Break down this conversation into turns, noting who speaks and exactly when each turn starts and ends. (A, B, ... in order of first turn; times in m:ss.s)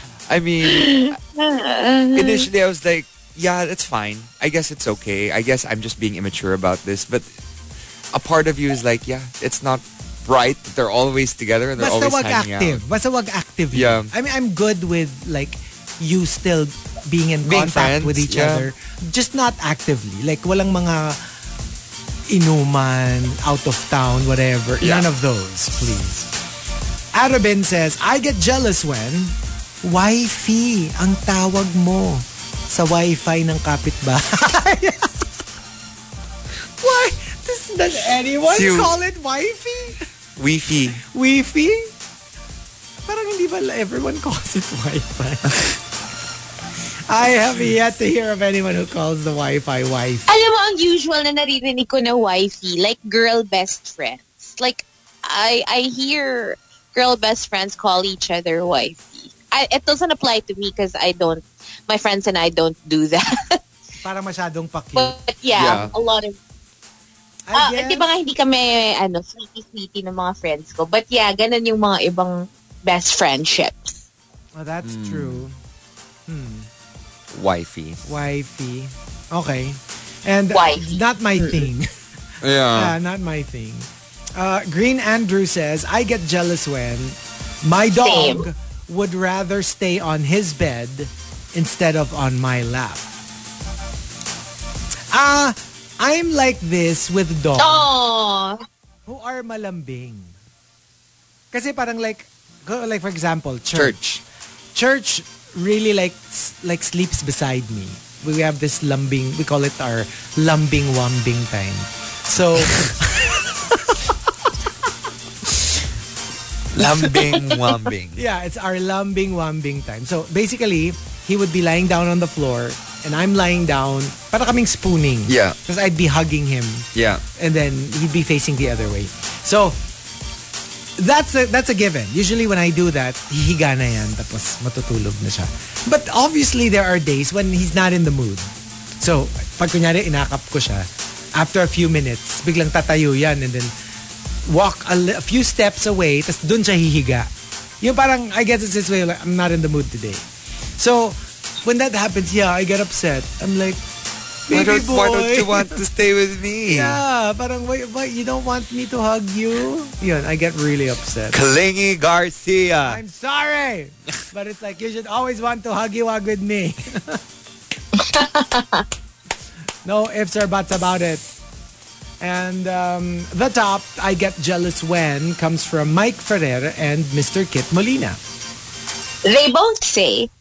0:00.3-0:01.2 A
0:00.6-0:02.5 B
0:02.1-0:07.3 A
0:08.1-0:12.8 A
0:11.8-0:21.2 C
0:13.7-0:14.1 A
0:17.4-0:18.7 A
0:22.3-0:26.3 C
0:24.8-0:25.1 A
0:27.1-0:35.2 C
0:36.8-0:40.0 C
0:38.5-0:39.0 A
0:40.4-0:41.0 A
0:41.0-0:41.9 C
0:43.1-0:45.7 C
0:47.1-0:50.3 C
0:50.3-1:03.6 B
1:04.0-1:05.2 C
1:05.0-1:06.4 B
1:05.5-1:05.9 A
1:07.5-1:08.1 C
1:07.5-1:14.0 B
1:14.6-1:15.6 C
1:14.8-1:15.5 A
1:16.3-1:16.7 C
1:17.3-1:18.0 A
1:18.0-1:21.9 C
1:20.5-1:21.0 B
1:22.4-1:23.0 A
1:22.7-1:33.1 C
1:27.9-1:28.5 B
1:35.1-1:37.9 C
1:37.6-1:38.6 B
1:39.1-1:40.4 C
1:41.5-1:44.1 C
1:43.7-1:44.2 A
1:44.8-1:54.1 C
1:56.7-1:58.2 A
1:58.2-2:09.8 C
2:05.3-2:05.6 A
2:06.9-2:07.2 A
2:11.0-2:23.7 C
2:24.5-2:30.2 C
2:30.8-2:33.8 C
2:34.5-2:35.8 C
2:34.5-2:37.0 A
2:36.7-2:41.4 C
2:41.3-2:43.0 A
2:42.8-2:47.2 C
2:48.0-2:48.8 B
2:49.8-2:51.3 C
2:52.2-2:58.2 C
2:59.2-3:00.3 B